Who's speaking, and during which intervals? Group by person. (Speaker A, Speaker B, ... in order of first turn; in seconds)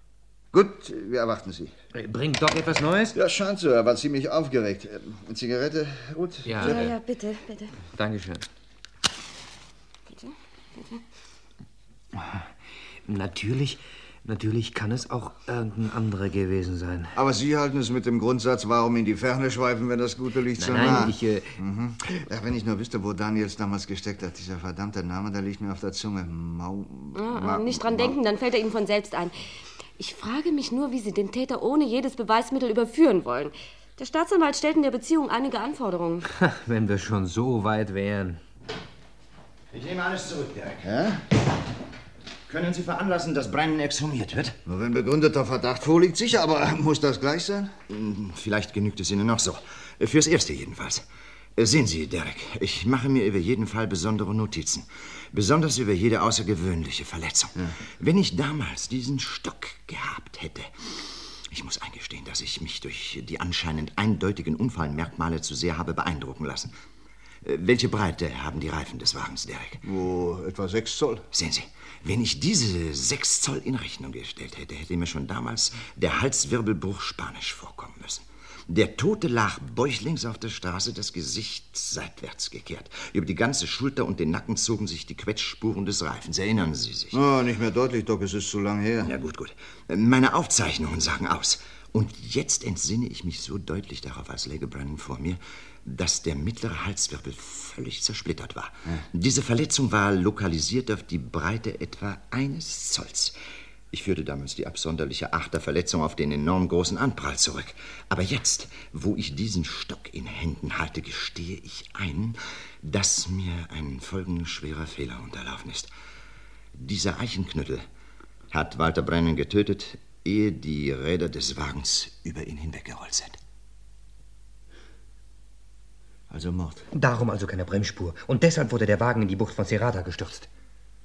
Speaker A: 0.5-1.7, 3.1-6.9, 17.1-28.2, 40.8-41.2, 44.7-47.8, 69.8-71.3, 87.1-89.1, 126.3-126.9
Speaker B: 1.9-3.2, 6.5-6.8, 7.9-8.5, 13.1-17.1, 20.6-21.6, 36.3-38.4, 126.9-130.5
Speaker C: 6.6-7.7, 10.1-11.0, 27.1-29.4, 30.0-36.3
Speaker D: 39.7-40.9, 42.5-44.6, 47.9-51.0, 51.6-66.7, 67.5-69.8, 71.3-87.2, 89.0-103.3, 103.9-115.9, 116.8-117.8, 118.5-123.4